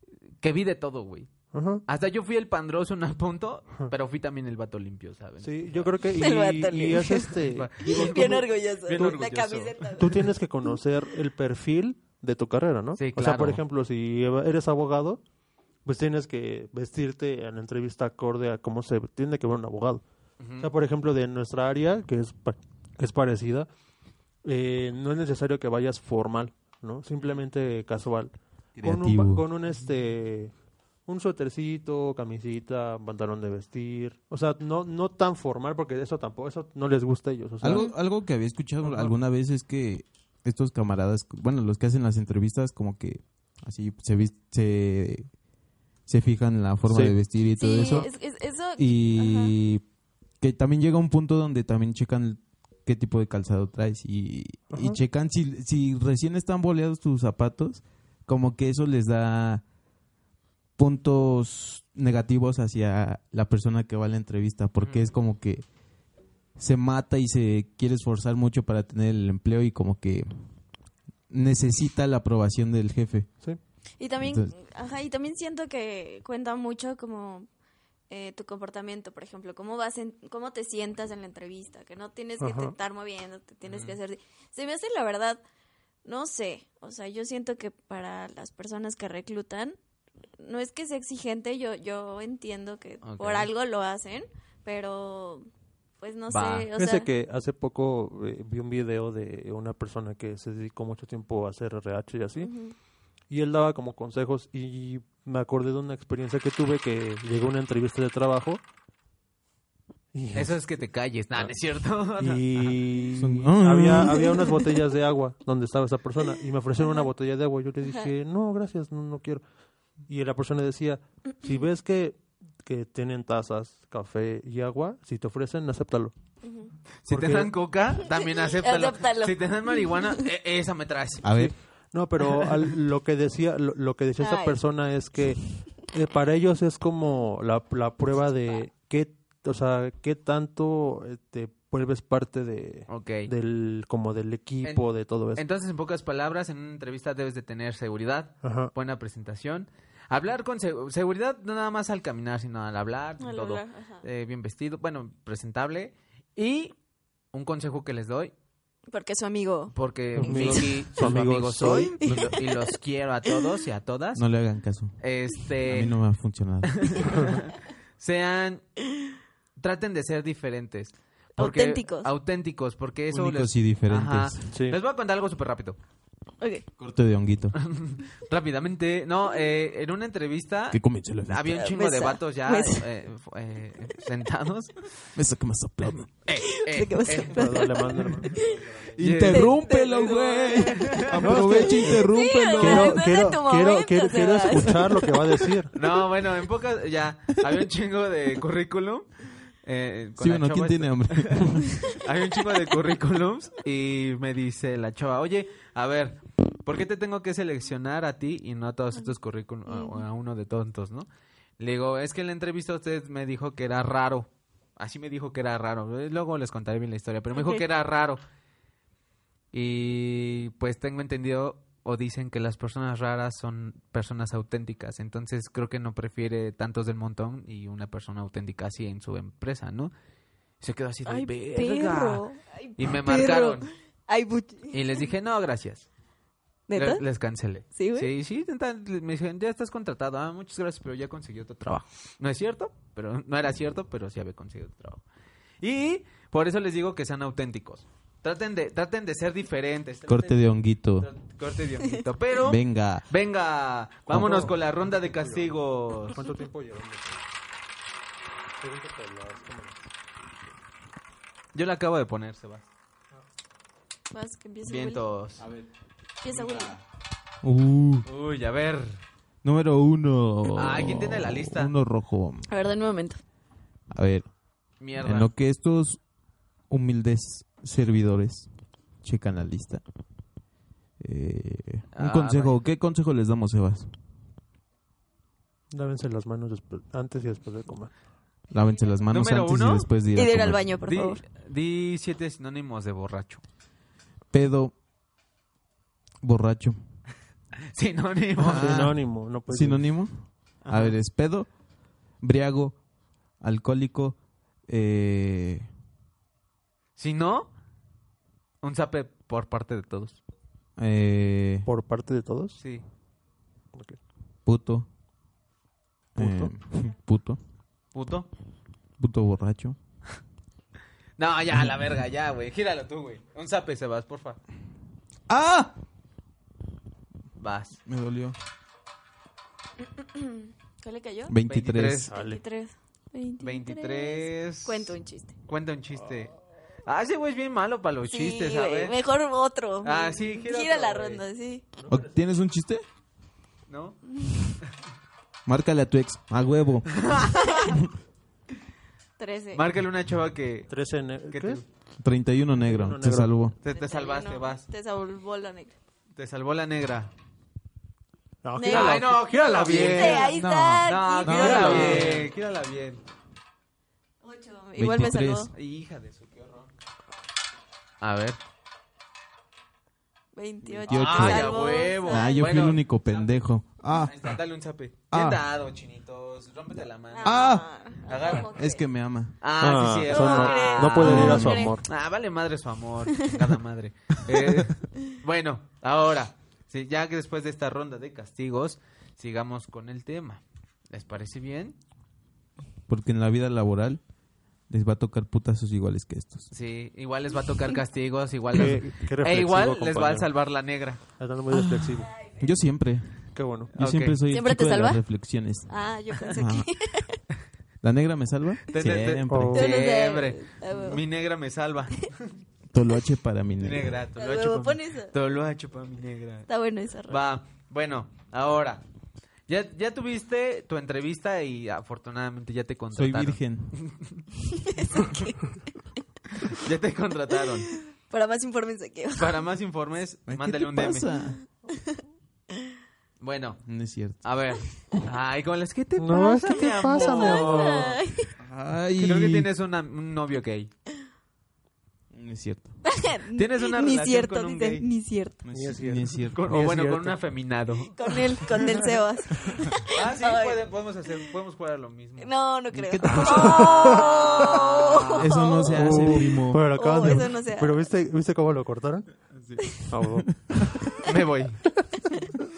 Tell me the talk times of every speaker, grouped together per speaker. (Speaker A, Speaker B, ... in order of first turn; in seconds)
Speaker A: 0.4-1.3, 1.9-5.9, 7.4-9.8, 13.0-13.6, 20.4-20.7, 64.8-65.1, 83.7-84.0, 93.0-93.5, 96.3-96.7, 110.3-112.8, 127.0-131.3, 132.3-132.5, 142.9-143.3, 145.4-156.7, 157.3-158.3, 159.7-164.3, 165.0-166.0, 166.6-168.7, 169.6-175.8, 177.6-184.8, 185.9-187.7, 189.0-191.4, 195.7-211.1, 211.6-218.2, 219.5-229.9, 230.6-232.2, 232.8-233.7, 234.7-235.9, 236.8-245.0, 245.6-250.4, 251.0-256.2, 261.6-262.7, 264.7-265.5, 268.1-269.0, 270.6-271.7, 274.8-275.3, 281.9-282.6, 289.1-289.9, 290.9-293.4, 297.7-298.9, 300.6-300.9, 307.0-307.5, 308.6-310.2, 312.6-312.8, 317.9-318.3, 321.2-324.4, 327.4-327.8, 331.5-332.1, 333.4-335.0, 335.5-336.3, 336.9-339.0, 339.8-341.2, 343.7-344.0, 346.9-347.8, 349.5-350.7, 351.3-351.6, 353.6-354.6, 356.2-357.1, 358.7-363.0, 365.5-366.7, 368.0-368.4, 370.7-373.3, 373.9-378.5, 379.4-391.8, 396.5-401.0, 403.8-404.2, 408.7-412.4, 413.6-416.5, 417.1-418.8, 419.5-424.2, 426.4-427.7, 429.2-431.1, 433.2-433.6, 434.2-438.0, 439.0-440.7, 443.4-444.9, 446.3-448.0, 449.9-452.3, 453.2-455.3, 455.8-456.2, 461.0-461.7
Speaker B: 1.5-1.8, 5.4-9.2, 9.9-15.2, 15.8-20.0, 20.6-23.7, 24.4-30.5, 31.1-37.9, 38.8-39.1, 46.9-47.2, 54.7-55.0, 82.4-82.7, 96.8-102.5, 103.3-108.6, 110.1-110.5, 112.2-119.4, 120.1-126.1, 127.1-127.5, 131.3-145.4, 148.4-148.7, 160.2-162.0, 174.5-174.8, 187.3-188.6, 191.2-195.7, 254.1-255.5, 256.1-257.2, 258.6-259.8, 285.7-287.9, 298.4-299.9, 311.7-312.6, 316.2-316.5, 332.1-332.4, 341.8-342.2, 350.7-351.6, 352.6-353.3, 358.4-360.3, 361.3-362.3, 379.6-381.9, 398.5-400.3, 401.2-402.1, 403.4-403.7, 409.3-409.6, 436.0-438.0, 445.5-447.2, 453.2-454.1, 455.7-459.1, 459.9-460.9
Speaker C: 6.2-10.2, 47.6-49.5, 74.0-77.5, 78.1-85.4, 86.0-89.8, 90.4-95.5, 96.0-97.1, 102.4-102.8, 126.4-126.7, 128.2-130.2, 134.2-134.6, 153.2-154.1, 158.9-160.7, 162.0-162.7, 171.4-172.1, 181.6-182.8, 186.4-188.5, 189.3-195.0, 209.7-210.1, 217.3-217.6, 231.1-235.0, 236.7-237.0, 237.7-238.1, 264.1-265.0, 266.2-266.7, 272.5-273.2, 290.1-291.2, 330.0-331.3, 332.1-335.3, 338.1-341.6, 349.2-349.6, 353.7-355.8, 358.6-359.1, 359.6-362.1, 364.2-365.5, 370.4-372.4, 377.1-378.8, 380.1-381.8, 404.3-405.0, 405.7-407.2, 409.6-411.0, 414.2-415.1, 416.5-417.2, 424.6-425.4, 427.9-429.4, 431.7-432.0, 437.0-438.3, 442.9-445.4, 447.9-450.6, 452.2-455.8, 456.7-457.8
Speaker D: 28.8-29.4, 37.6-45.3, 46.1-48.1, 48.8-49.8, 50.4-59.6, 60.8-65.7, 66.6-70.3, 71.3-73.3, 74.2-74.5, 113.2-114.5, 131.2-131.5, 164.2-165.0, 165.6-166.9, 173.1-174.4, 176.8-177.6, 180.7-181.6, 185.2-186.1, 188.9-193.0, 200.2-201.7, 250.1-251.1, 252.4-253.1, 254.1-254.5, 265.4-265.7, 266.3-266.6, 267.4-268.1, 269.4-272.5, 273.9-274.3, 275.0-276.0, 276.7-278.5, 279.0-279.8, 281.0-283.9, 288.5-290.7, 294.3-294.7, 296.2-296.8, 298.4-299.0, 299.5-300.1, 300.7-301.5, 302.2-302.8, 303.4-304.2, 304.7-305.7, 310.8-311.7, 314.5-314.9, 316.2-317.4, 319.0-319.8, 325.3-325.7, 327.9-328.4, 331.3-332.1, 341.9-342.8, 345.5-347.0, 352.0-353.6, 360.3-362.2, 364.8-365.5, 370.9-374.4, 375.1-375.4, 377.2-377.7, 378.3-379.4, 381.0-381.7, 392.9-394.0, 394.7-396.5, 401.5-406.7, 407.8-409.7, 412.7-414.0, 422.9-423.8, 430.3-431.4, 433.7-434.2, 438.4-439.5, 442.1-442.8, 445.4-446.4, 452.7-453.9, 455.2-457.2, 460.1-460.7